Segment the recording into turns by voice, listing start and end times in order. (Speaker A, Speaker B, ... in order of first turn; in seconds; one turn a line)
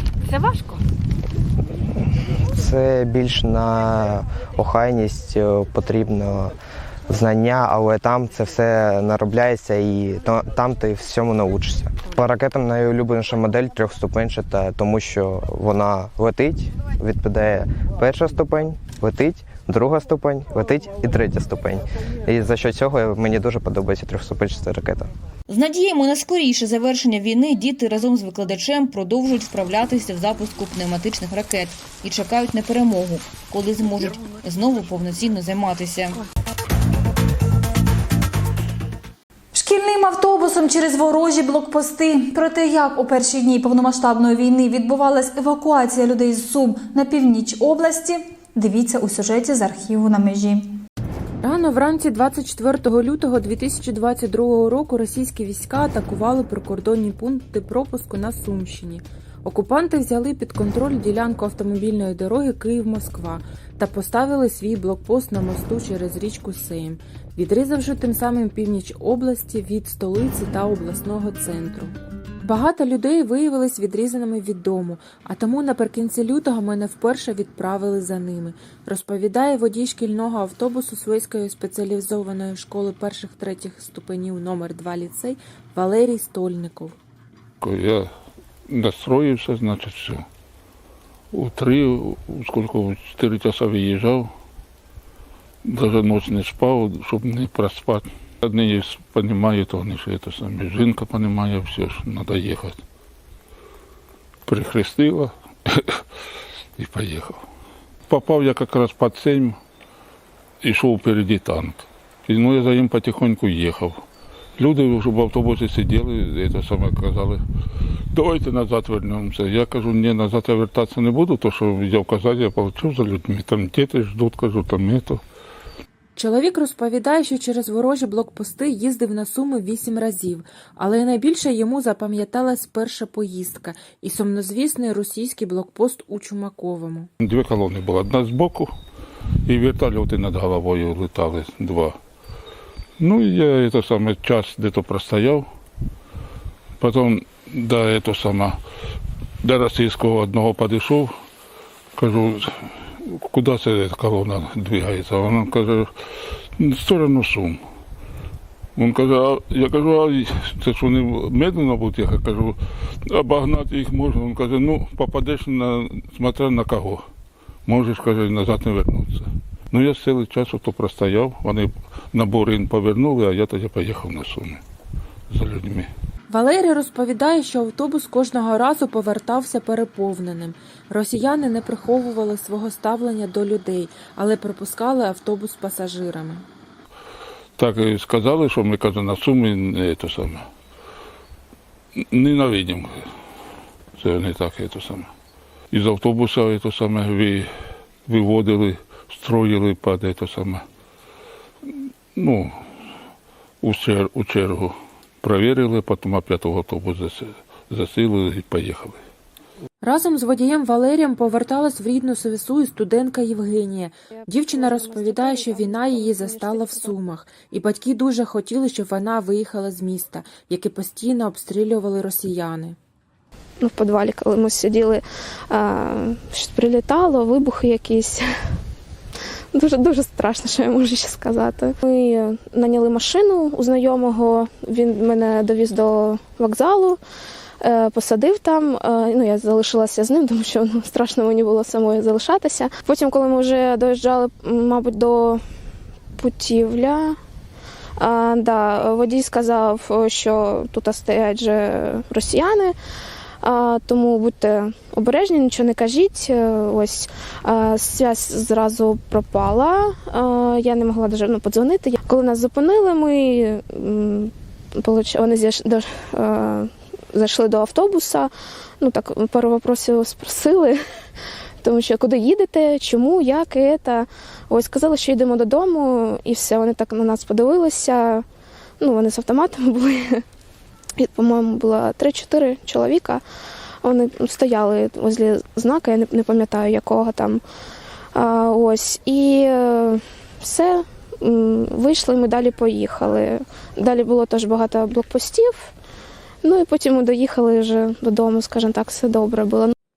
Speaker A: 0.3-0.8
Speaker B: 2.5-6.5
Speaker B: 7.1-25.1
Speaker C: 25.5-36.2
Speaker D: 39.5-50.8
Speaker A: 51.4-86.9
Speaker E: 87.6-88.1
Speaker E: 88.7-90.2
Speaker E: 91.3-94.3
Speaker E: 95.6-102.8
Speaker E: 104.5-106.0
Speaker E: 106.8-107.5
Speaker E: 108.1-109.6
Speaker E: 110.6-114.0
Speaker E: 114.6-117.4
Speaker E: 118.1-125.2
Speaker A: 126.2-137.1
Speaker E: 137.2-138.7
Speaker E: 139.4-142.0
Speaker E: 143.0-145.5
Speaker E: 146.8-148.6
Speaker E: 149.4-151.1
Speaker E: 151.9-152.5
Speaker E: 153.1-155.9
Speaker E: 156.6-157.6
Speaker E: 158.8-162.6
Speaker E: 163.1-167.0
Speaker E: 167.6-174.6
Speaker E: 175.3-175.9
Speaker A: 176.3-186.4
Speaker E: 187.6-190.4
Speaker E: 192.1-193.0
Speaker E: 194.0-195.1
Speaker E: 195.7-197.5
Speaker E: 198.1-200.6
Speaker E: 202.1-202.5
Speaker E: 203.6-209.0
Speaker A: 209.8-222.8
Speaker F: 214.3-216.9
Speaker F: 223.6-228.3
Speaker F: 229.5-237.0
Speaker F: 237.6-245.4
Speaker F: 246.2-247.2
Speaker F: 248.0-252.7
Speaker F: 253.4-270.8
Speaker F: 271.6-278.2
Speaker F: 278.8-280.2
Speaker F: 281.0-283.2
Speaker F: 283.8-287.4
Speaker F: 288.1-295.7
Speaker F: 296.4-299.7